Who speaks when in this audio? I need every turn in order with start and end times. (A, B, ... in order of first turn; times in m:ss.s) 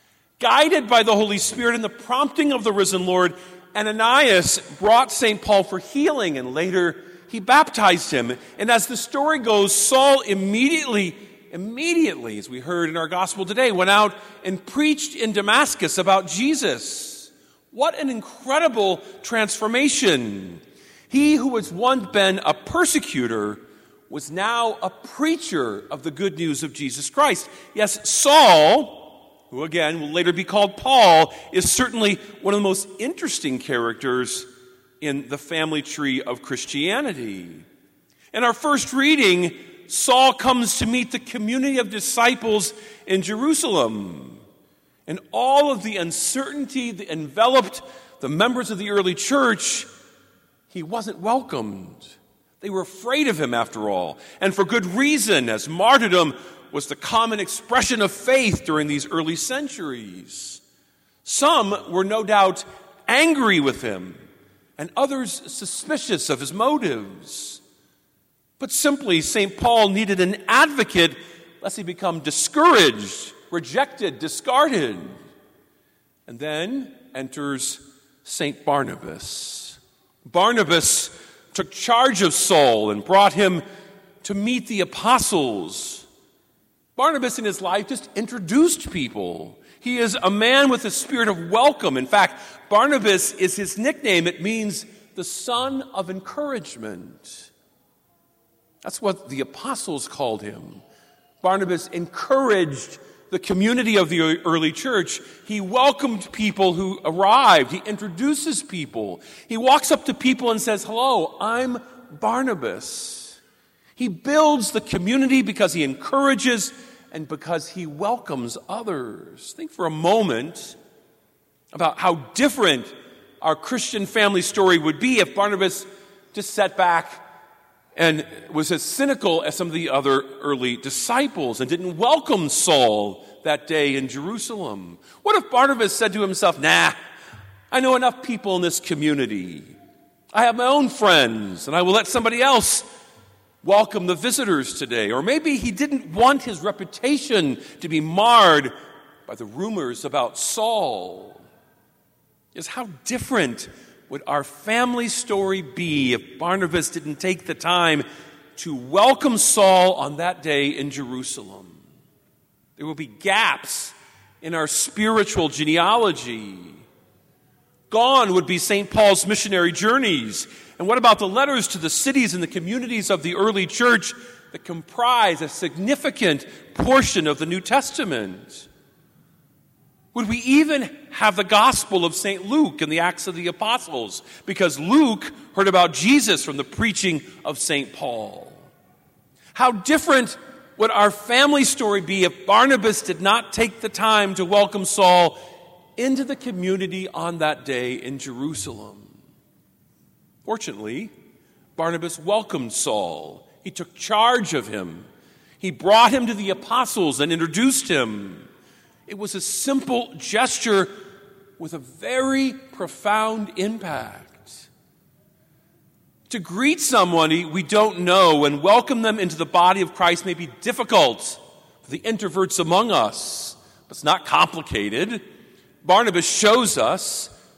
0:00.4-0:34.5 A
0:35.0-0:37.7 A
0:38.3-0:44.4 A
0:45.1-0:49.9 A
0:50.7-1:00.6 A
1:01.2-1:04.2 A
1:04.8-1:07.6 A
1:08.6-1:15.2 A
1:16.3-1:23.6 A
1:24.2-1:26.1 A
1:27.0-1:37.5 A
1:38.8-1:40.8 A
1:41.4-1:53.4 A
1:54.0-2:00.8 A
2:01.7-2:07.2 A
2:08.0-2:17.0 A
2:17.7-2:19.8 A
2:20.3-2:22.9 A
2:23.6-2:28.8 A
2:29.3-2:31.4 A
2:32.5-2:41.8 A
2:42.8-2:46.8 A
2:47.9-2:58.7 A
3:00.1-3:08.7 A
3:09.6-3:15.4 A
3:16.0-3:19.1 A
3:20.4-3:21.1 A
3:21.8-3:25.1 A
3:25.6-3:28.5 A
3:29.1-3:31.0 A
3:31.6-3:34.7 A
3:36.3-3:45.2 A
3:45.8-3:47.3 A